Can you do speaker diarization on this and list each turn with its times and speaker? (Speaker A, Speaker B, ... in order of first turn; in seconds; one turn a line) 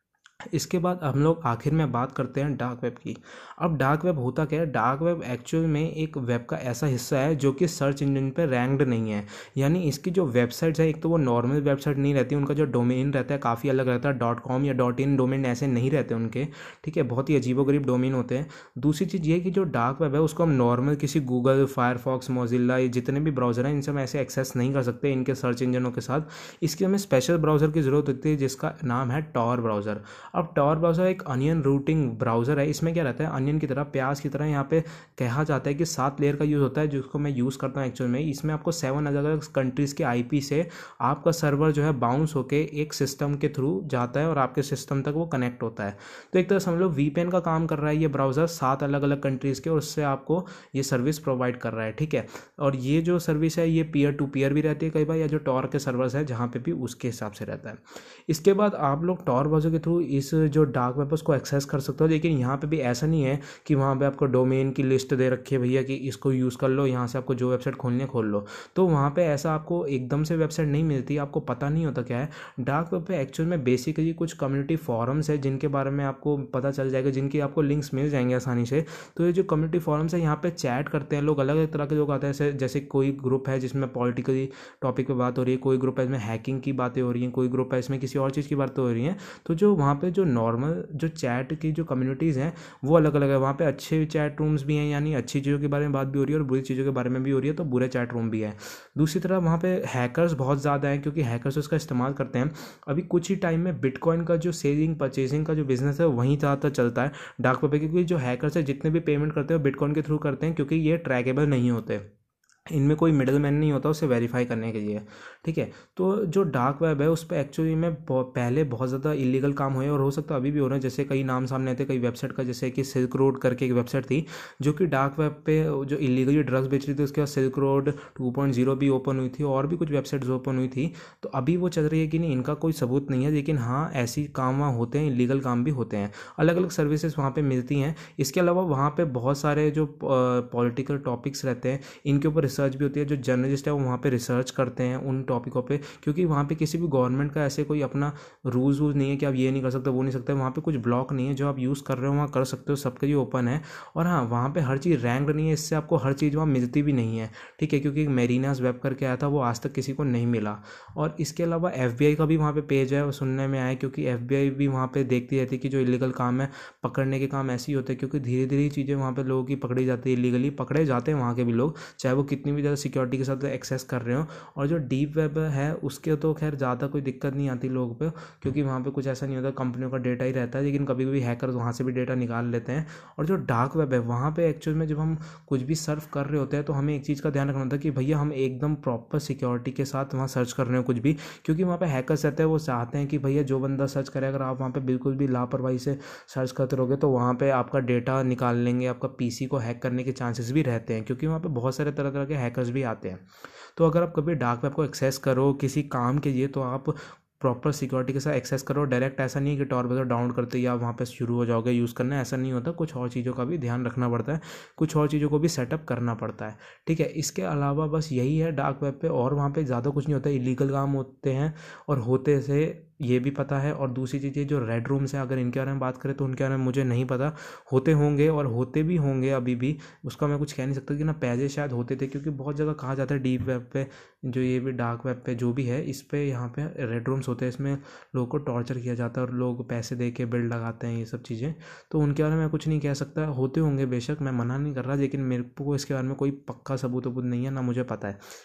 Speaker A: 0.5-112.0
Speaker A: 112.7-203.2
Speaker A: 203.7-248.2